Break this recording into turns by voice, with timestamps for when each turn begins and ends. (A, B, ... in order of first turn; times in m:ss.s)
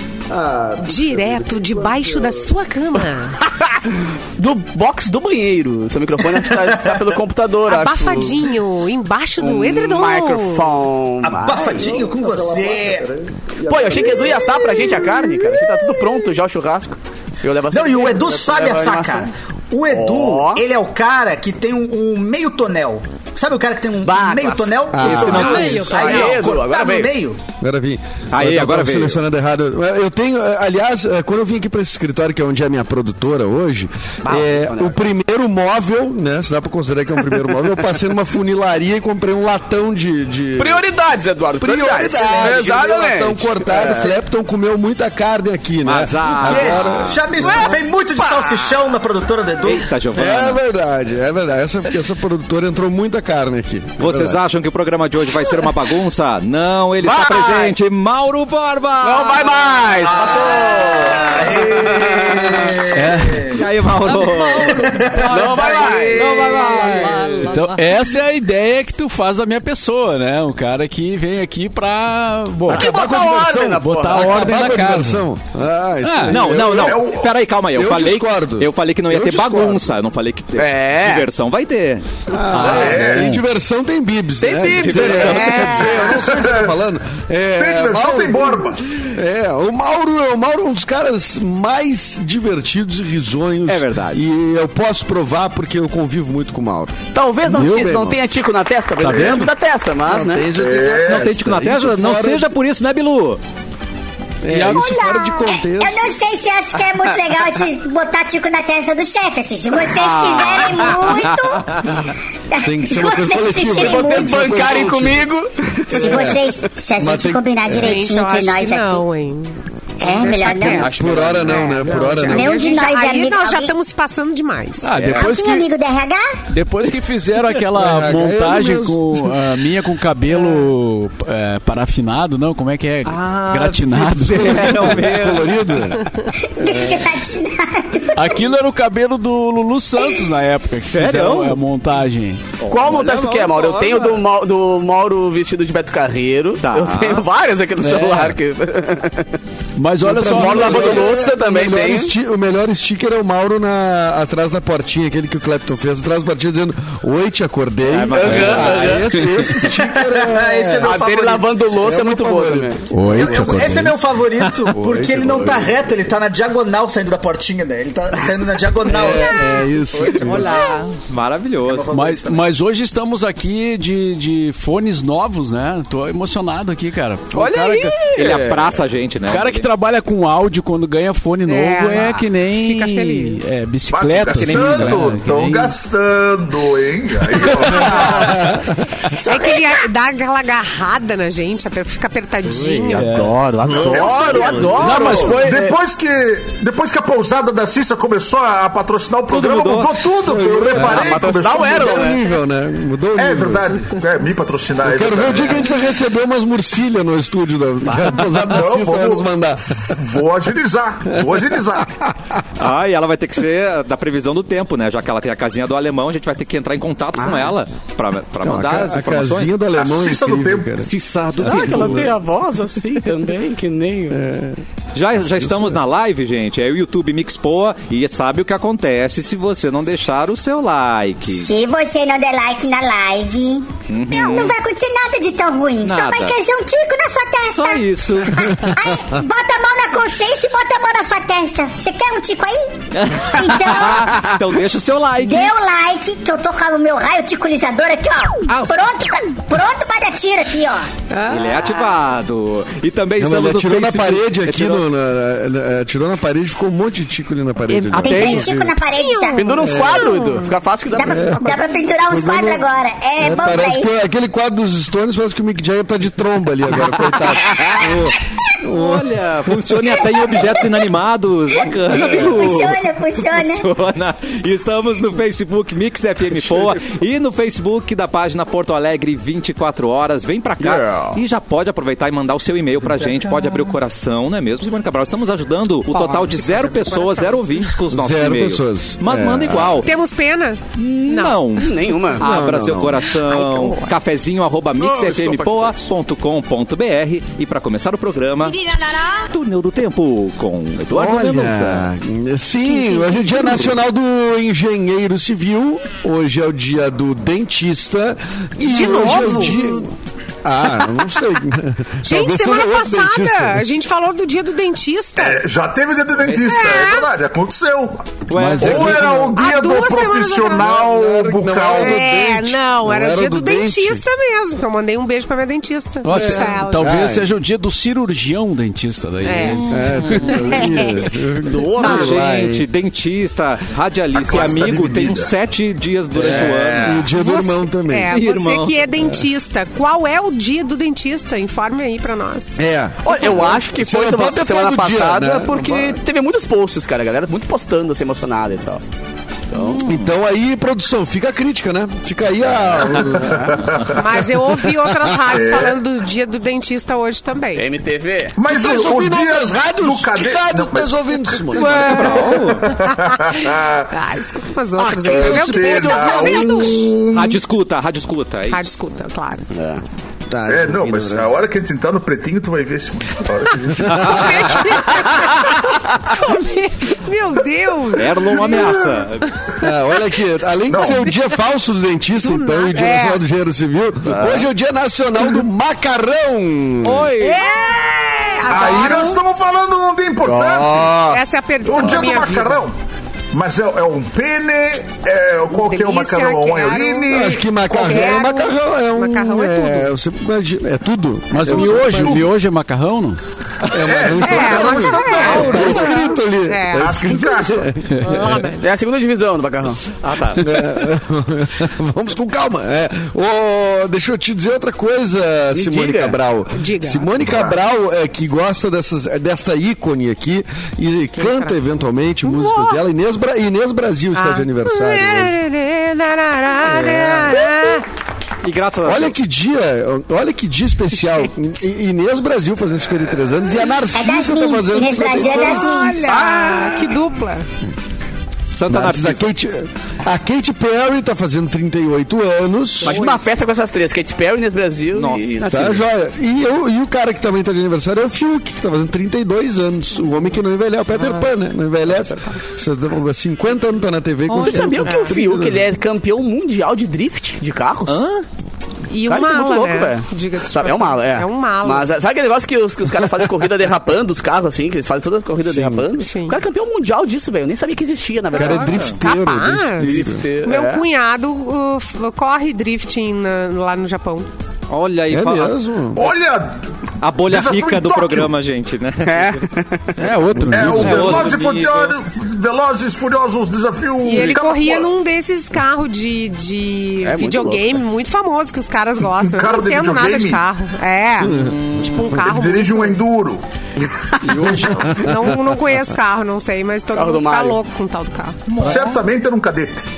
0:00.3-0:02.5 A
0:00.9-0:03.4 B
0:03.4-0:08.5 C
0:06.3-0:07.2 D
0:07.7-0:10.7 B
0:09.4-0:11.9 C
0:11.2-0:13.1 D
0:11.8-0:14.7 A
0:13.7-0:19.3 C
0:17.7-0:27.4 D
0:19.9-0:20.6 C
0:24.0-0:27.1 C
0:24.9-0:25.6 A
0:25.0-0:26.3 E
0:27.6-0:40.9 A
0:28.3-0:29.2 E
0:34.2-0:35.0 C
0:40.6-0:44.1 C
0:41.6-0:47.8 A
0:45.8-0:47.2 E
0:46.3-0:49.9 D
0:47.4-0:48.7 C
0:49.6-0:50.6 E
0:50.1-0:54.4 A
0:54.0-0:59.7 E
0:57.0-0:57.7 C
0:59.0-1:02.8 C
0:59.8-1:06.9 D
1:02.9-1:03.5 F
1:03.5-1:04.8 E
1:04.3-1:07.8 C
1:06.1-1:07.5 E
1:06.5-1:07.1 A
1:07.5-1:12.9 F
1:12.7-1:17.0 A
1:12.7-1:14.6 C
1:13.7-1:15.2 F
1:16.0-1:16.4 F
1:16.3-1:22.0 E
1:16.5-1:17.3 G
1:17.7-1:19.9 A
1:20.6-1:21.3 C
1:22.3-1:38.2 A
1:22.5-1:23.4 F
1:22.6-1:23.4 G
1:24.4-1:26.0 C
1:24.6-1:25.9 E
1:25.2-1:26.1 B
1:26.0-1:26.7 G
1:27.6-1:28.8 G
1:33.7-1:34.2 E
1:37.1-1:40.5 C
1:39.0-1:39.5 F
1:40.0-1:42.5 A
1:40.5-1:41.3 G
1:41.0-1:43.4 E
1:44.4-1:46.1 A
1:44.5-1:44.9 F
1:44.7-1:45.6 B
1:45.4-1:51.8 H
1:49.8-1:51.3 C
1:51.1-1:52.0 E
1:52.5-1:54.8 H
1:52.6-1:55.2 A
1:53.6-1:56.5 C
1:55.9-1:59.0 H
1:55.9-1:56.4 A
1:57.0-1:58.0 A
1:57.7-2:00.9 B
2:00.0-2:00.9 H
2:00.7-2:02.6 A
2:00.8-2:01.6 E
2:01.4-2:04.9 B
2:01.7-2:02.2 C
2:02.3-2:03.7 H
2:04.8-2:05.6 F
2:05.0-2:05.3 E
2:05.0-2:06.3 H
2:06.5-2:15.1 F
2:07.7-2:09.3 A
2:13.0-2:15.8 E
2:14.3-2:16.1 A
2:16.6-2:18.4 H
2:16.6-2:17.1 A
2:18.1-2:22.6 F
2:20.8-2:21.6 E
2:22.6-2:24.2 E
2:22.6-2:29.4 C
2:26.6-2:27.2 E
2:27.8-2:28.4 F
2:29.8-2:31.0 F
2:30.0-2:40.9 A
2:30.2-2:32.1 C
2:37.8-2:39.6 E
2:38.2-2:39.0 C
2:38.3-2:38.6 F
2:39.5-2:41.6 D
2:40.8-2:42.8 C
2:41.8-2:43.9 A
2:42.9-2:43.9 F
2:43.1-2:50.7 D
2:44.7-2:45.8 A
2:48.8-2:50.6 A
2:50.1-2:51.9 E
2:51.6-2:52.5 D
2:51.9-2:58.0 F
2:57.3-2:58.7 C
2:58.2-2:59.7 E
2:59.2-3:05.8 F
3:01.4-3:03.5 B
3:03.9-3:08.5 G
3:04.3-3:05.2 E
3:07.6-3:08.7 A
3:09.2-3:13.2 B
3:12.8-3:13.8 F
3:13.0-3:15.4 C
3:13.7-3:22.2 G
3:14.3-3:15.8 F
3:19.3-3:20.0 E
3:20.2-3:23.8 A
3:20.8-3:22.2 C
3:23.2-3:25.7 G
3:24.8-3:29.8 A
3:27.9-3:31.9 G
3:31.1-3:32.1 A
3:32.6-3:39.5 E
3:37.2-3:37.5 C
3:38.4-3:42.1 A
3:39.7-3:40.8 G
3:40.8-3:42.1 E
3:41.4-3:44.2 C
3:44.1-3:44.6 A
3:44.9-3:51.5 E
3:45.2-3:45.8 A
3:51.3-4:02.8 H
3:53.9-3:54.6 E
3:55.8-3:56.4 E
3:57.5-3:58.5 E
4:02.9-4:05.6 E
4:03.3-4:04.2 H
4:05.2-4:10.9 H
4:08.5-4:08.7 E
4:11.1-4:11.8 B
4:11.3-4:14.9 E
4:13.2-4:18.8 A
4:17.7-4:18.5 C
4:18.0-4:19.5 H
4:18.8-4:20.5 B
4:19.3-4:21.8 C
4:19.6-4:20.1 A
4:20.9-4:24.0 H
4:21.0-4:30.3 A
4:28.7-4:49.9 E
4:31.9-4:32.5 A
4:31.9-4:33.6 H
4:40.6-4:41.2 C
4:45.9-4:47.4 B
4:47.9-4:49.8 A
4:49.8-4:51.6 B
4:50.8-5:01.8 E
4:51.6-4:52.2 C
4:52.2-4:53.1 A
4:53.3-4:53.9 B
4:54.8-4:55.8 C
5:00.9-5:09.9 A
5:02.8-5:03.2 B
5:08.6-5:09.9 B
5:10.4-5:13.6 A
5:12.0-5:15.4 B
5:15.2-5:22.0 G
5:16.4-5:17.1 B
5:18.3-5:19.2 E
5:18.3-5:19.2 F
5:19.2-5:20.8 B
5:20.6-5:24.0 A
5:21.7-5:26.8 B
5:26.0-5:30.8 F
5:26.2-5:27.3 A
5:29.2-5:29.6 B
5:29.4-5:30.5 E
5:29.7-5:32.6 A
5:30.2-5:31.0 B
5:31.4-5:31.8 C
5:31.8-5:37.1 E
5:31.8-5:32.1 B
5:34.1-5:35.3 G
5:36.1-5:38.2 A
5:36.2-5:37.1 C
5:37.1-5:42.6 B
5:38.1-5:38.8 E
5:39.0-5:39.2 A
5:42.6-5:46.0 A
5:43.0-5:48.8 C
5:49.5-5:49.9 C
5:49.6-5:50.1 E
5:49.8-5:53.7 A
5:52.9-5:53.9 G
5:53.9-5:57.6 B
5:54.7-5:55.1 A
5:55.3-5:55.8 G
5:57.6-5:58.4 C
5:58.4-6:03.9 G
5:58.5-6:02.2 A
6:01.5-6:02.7 E
6:02.2-6:06.8 B
6:04.8-6:06.9 A
6:05.1-6:07.4 G
6:07.1-6:08.7 E
6:08.5-6:09.5 B
6:09.5-6:09.8 C
6:10.3-6:11.3 A
6:10.5-6:14.5 G
6:13.7-6:14.6 A
6:13.9-6:14.8 E
6:14.0-6:18.9 B
6:14.9-6:15.2 C
6:17.9-6:19.3 E
6:18.4-6:18.7 G
6:19.6-6:27.1 A
6:20.7-6:21.1 G
6:22.2-6:23.2 B
6:24.0-6:24.5 C
6:26.8-6:27.5 E
6:27.2-6:29.2 B
6:28.5-6:31.0 G
6:30.2-6:31.2 C
6:31.1-6:32.6 B
6:31.6-6:32.7 G
6:33.3-6:38.1 G
6:35.5-6:39.9 B
6:37.1-6:42.2 A
6:41.3-6:43.2 F
6:41.4-6:42.3 G
6:41.8-6:42.0 B
6:43.7-6:48.4 A
6:43.7-6:45.8 G
6:44.2-6:47.1 B
6:45.0-6:46.0 E
6:46.8-6:47.7 G
6:47.9-6:48.3 F
6:48.0-6:48.6 B
6:48.5-6:49.8 C
6:50.0-6:50.4 E
6:50.4-7:05.3 A
6:55.5-6:56.2 C
6:56.5-6:57.1 B
6:57.2-6:57.6 G
7:01.2-7:01.6 B
7:02.2-7:02.8 B
7:04.1-7:07.8 B
7:06.6-7:07.8 A
7:08.4-7:09.2 E
7:08.8-7:15.7 A
7:13.9-7:16.0 H
7:15.1-7:17.4 B
7:16.0-7:16.9 C
7:18.5-7:19.3 E
7:18.7-7:23.0 A
7:22.8-7:25.8 C
7:24.9-7:25.8 E
7:25.4-7:35.6 A
7:34.3-7:34.8 E
7:34.4-7:38.1 C
7:34.8-7:35.1 B
7:37.9-7:38.2 E
7:38.9-7:41.9 B
7:39.0-7:48.9 C
7:45.4-7:45.9 A
7:46.0-7:46.4 B
7:48.3-7:50.2 A
7:48.4-7:54.3 B
7:48.7-7:49.0 E
7:49.8-7:50.8 C
7:54.7-7:55.6 E
7:55.1-7:56.1 A
7:55.9-7:56.6 G
7:57.0-7:59.5 E
7:57.2-7:58.3 G
7:59.1-8:00.0 C
8:00.0-8:01.2 F
8:00.4-8:01.9 E
8:00.5-8:04.9 G
8:01.1-8:01.8 C
8:04.0-8:13.0 B
8:07.0-8:07.8 C
8:09.2-8:10.4 G
8:11.2-8:12.0 A
8:12.0-8:13.4 G
8:14.2-8:14.9 F
8:14.5-8:15.8 A
8:14.8-8:18.4 B
8:16.9-8:17.6 C
8:18.5-8:19.0 E
8:18.6-8:19.9 G